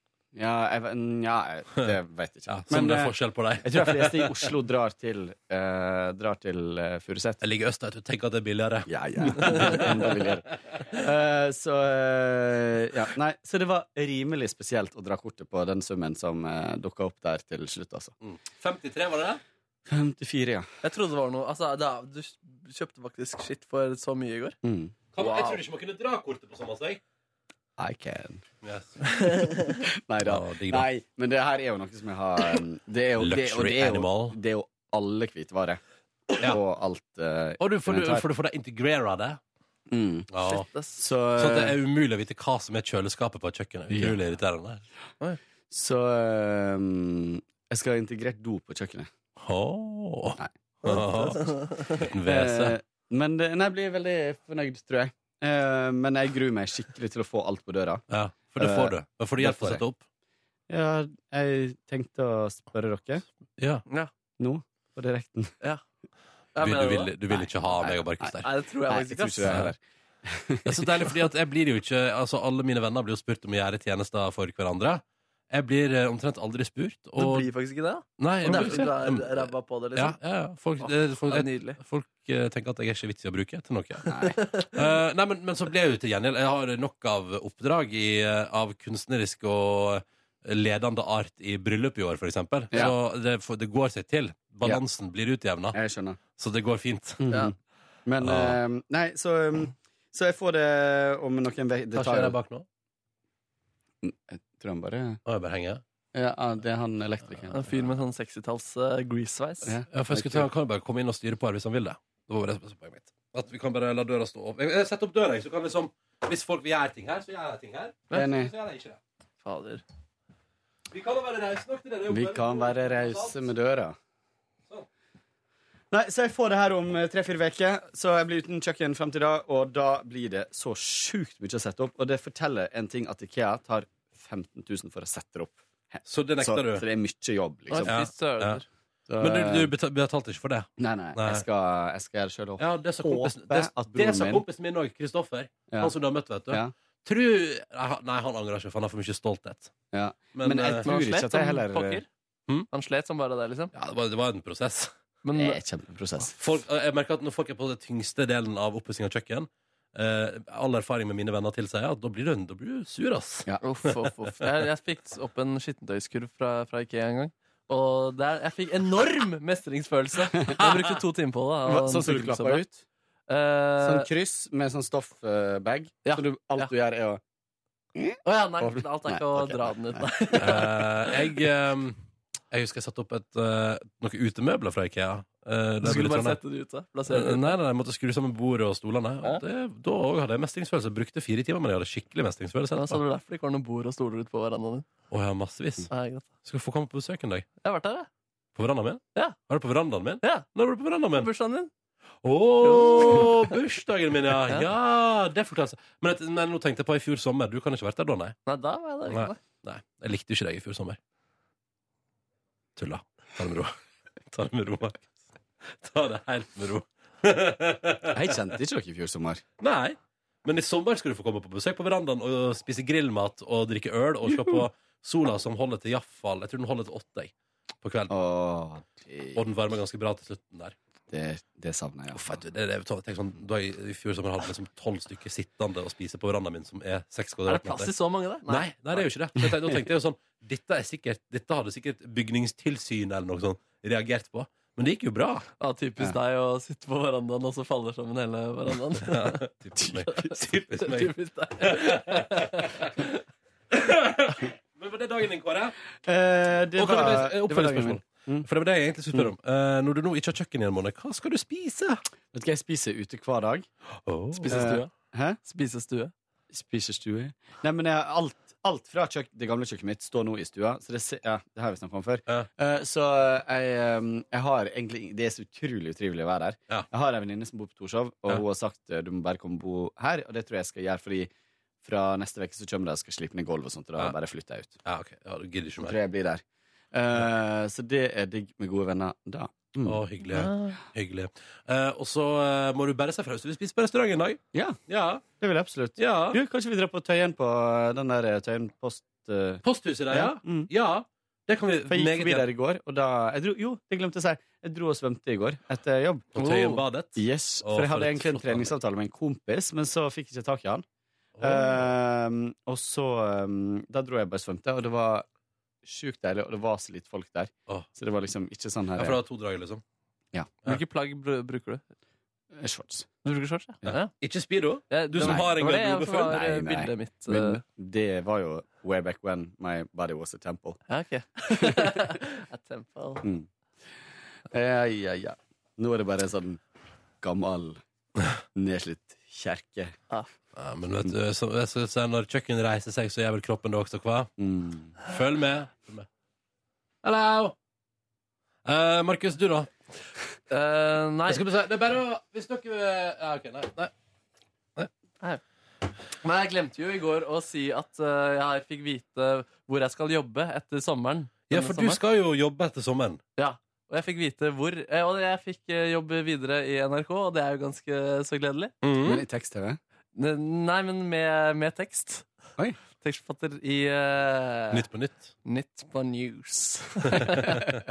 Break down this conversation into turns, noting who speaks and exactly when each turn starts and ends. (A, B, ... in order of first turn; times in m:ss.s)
0:00.3-0:07.4 A
0:02.5-0:04.5 B
0:07.4-0:10.2 B
0:08.9-0:18.1 A
0:18.2-0:19.4 B
0:19.9-0:20.7 A
0:20.8-0:24.6 C
0:24.6-0:25.0 A
0:25.1-0:27.0 B
0:25.2-0:25.6 C
0:27.8-0:28.4 A
0:28.6-0:29.6 B
0:29.2-0:29.7 C
0:29.7-0:35.8 A
0:30.2-0:30.8 B
0:33.2-0:34.4 B
0:36.4-0:38.2 A
0:37.6-0:39.4 B
0:39.9-0:40.3 A
0:40.3-0:40.7 B
0:40.4-0:41.0 C
0:41.0-0:41.8 A
0:41.4-0:44.8 B
0:43.9-0:44.2 A
0:45.7-0:49.1 A
0:49.4-0:52.7 B
0:50.4-0:51.4 A
0:51.3-0:52.0 C
0:52.2-0:59.8 A
0:58.1-1:00.0 B
1:00.7-1:03.2 A
1:03.6-1:03.8 B
1:04.4-1:05.5 A
1:06.5-1:07.3 C
1:06.6-1:08.5 B
1:07.4-1:08.3 A
1:08.4-1:09.6 C
1:08.9-1:11.1 A
1:09.5-1:09.7 B
1:10.6-1:17.5 B
1:17.2-1:20.2 C
1:18.2-1:35.8 B
1:18.5-1:18.8 A
1:20.8-1:21.8 C
1:24.1-1:24.4 A
1:24.2-1:24.8 C
1:35.7-1:36.2 A
1:36.4-1:37.4 B
1:37.2-1:37.5 A
1:38.0-1:42.4 A
1:38.2-1:38.6 B
1:41.9-1:42.6 B
1:44.0-1:45.2 A
1:45.2-1:45.8 B
1:46.1-1:47.9 A
1:47.5-1:49.7 C
1:49.6-1:50.5 A
1:49.9-1:59.0 B
1:58.1-1:58.5 A
1:59.4-1:59.8 C
2:00.9-2:03.5 B
2:02.1-2:04.0 A
2:05.9-2:18.0 A
2:16.0-2:16.8 B
2:17.7-2:18.6 C
2:17.8-2:18.6 B
2:19.1-2:19.7 A
2:19.2-2:21.4 B
2:20.8-2:24.4 A
2:22.6-2:29.7 B
2:25.7-2:25.9 A
2:29.9-2:32.0 A
2:30.3-2:30.9 B
2:30.8-2:32.1 C
2:32.7-2:33.7 C
2:33.7-2:34.9 B
2:35.2-2:35.6 C
2:35.3-2:36.3 A
2:36.3-2:44.5 B
2:43.6-2:52.6 C
2:50.6-2:50.9 B
2:51.6-2:52.8 A
2:53.3-2:54.1 C
2:53.8-2:57.2 A
2:56.0-2:56.7 C
2:58.0-3:00.6 A
2:58.2-3:01.2 C
3:00.4-3:06.4 B
3:05.8-3:07.6 C
3:07.1-3:13.0 B
3:12.7-3:14.8 C
3:15.1-3:15.9 B
3:15.9-3:16.3 C
3:16.4-3:17.5 B
3:17.6-3:18.1 C
3:18.6-3:21.3 B
3:20.2-3:20.5 C
3:21.1-3:21.7 C
3:22.2-3:28.4 B
3:22.6-3:23.5 C
3:28.5-3:29.4 C
3:29.1-3:31.0 B
3:32.8-3:35.1 B
3:35.6-3:38.4 B
3:38.1-3:39.4 A
3:39.6-3:48.1 B
3:48.1-3:49.4 A
3:49.3-3:50.8 B
3:51.1-3:52.3 A
3:52.1-3:57.9 B
3:57.4-3:59.0 C
3:58.5-4:05.4 B
4:05.6-4:09.5 C
4:09.0-4:12.9 B
4:09.8-4:10.3 A
4:10.1-4:13.2 C
4:13.7-4:15.8 B
4:16.0-4:18.5 A
4:16.8-4:22.0 B
4:22.3-4:23.6 A
4:24.0-4:24.9 B
4:24.3-4:24.9 C
4:24.5-4:25.4 A
4:25.4-4:26.1 C
4:26.5-4:41.3 A
4:41.8-4:44.8 A
4:44.8-4:46.0 B
4:45.8-4:50.0 A
4:49.8-4:55.2 B
4:50.3-4:50.8 C
4:54.5-4:54.8 A
4:55.3-5:00.7 A
4:56.0-4:56.4 B
4:59.6-5:02.5 B
5:01.9-5:06.4 A
5:06.3-5:08.7 B
5:06.4-5:06.8 C
5:07.2-5:10.8 A
5:11.4-5:11.9 B
5:11.4-5:15.2 A
5:15.8-5:19.2 A
5:18.9-5:19.8 B
5:20.6-5:21.8 C
5:22.5-5:23.1 A
5:23.2-5:24.1 C
5:24.0-5:26.4 B
5:24.9-5:27.6 C
5:25.2-5:25.5 A
5:26.2-5:30.8 A
5:30.9-5:33.3 C
5:31.5-5:31.9 A
5:33.2-5:33.5 A
5:34.5-5:36.6 A
5:37.2-5:37.8 A
5:38.5-5:39.9 A
5:40.6-5:44.3 B
5:44.4-5:45.0 A
5:45.0-5:46.1 B
5:47.0-5:47.6 B
5:48.6-5:49.7 B
5:50.5-5:51.4 C
5:51.3-5:53.9 B
5:56.2-6:02.0 C
6:01.5-6:03.2 B
6:03.4-6:08.7 C
6:08.8-6:09.2 B
6:09.0-6:09.8 A
6:10.1-6:12.2 C
6:13.0-6:14.8 C
6:14.7-6:15.3 B
6:15.4-6:17.6 C
6:17.1-6:17.8 B
6:17.1-6:17.8 A